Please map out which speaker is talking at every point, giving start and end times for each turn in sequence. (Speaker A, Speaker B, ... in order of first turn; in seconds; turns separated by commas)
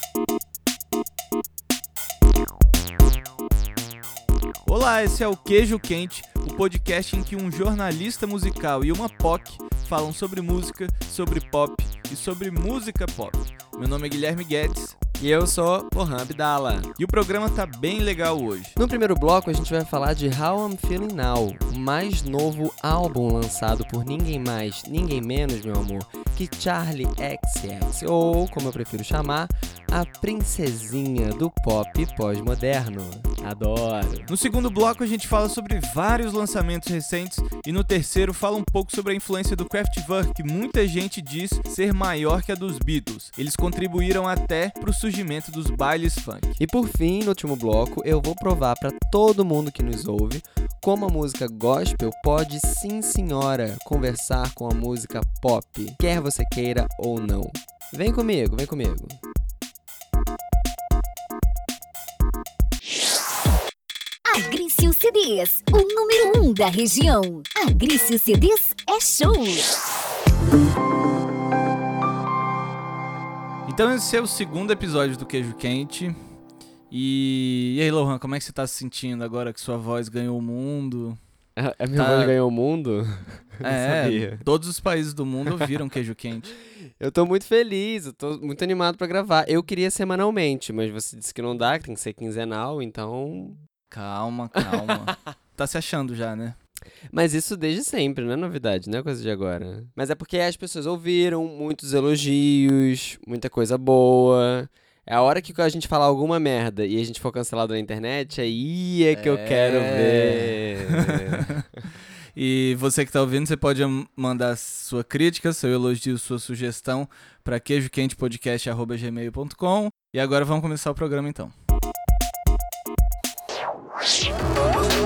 Speaker A: 4.7-15.0, Speaker B: 15.2-16.9, Speaker A: 17.0-18.8, Speaker B: 18.8-34.3, Speaker A: 34.3-46.5, Speaker B: 46.6-59.2, Speaker C: 64.2-69.7, Speaker A: 73.7-76.1, Speaker A: 76.9-81.2, Speaker B: 81.6-84.4, Speaker A: 82.0-82.3, Speaker A: 83.6-86.5, Speaker B: 87.0-93.6, Speaker A: 93.9-96.6, Speaker B: 97.1-111.6, Speaker A: 109.1-111.6, Speaker A: 112.3-121.5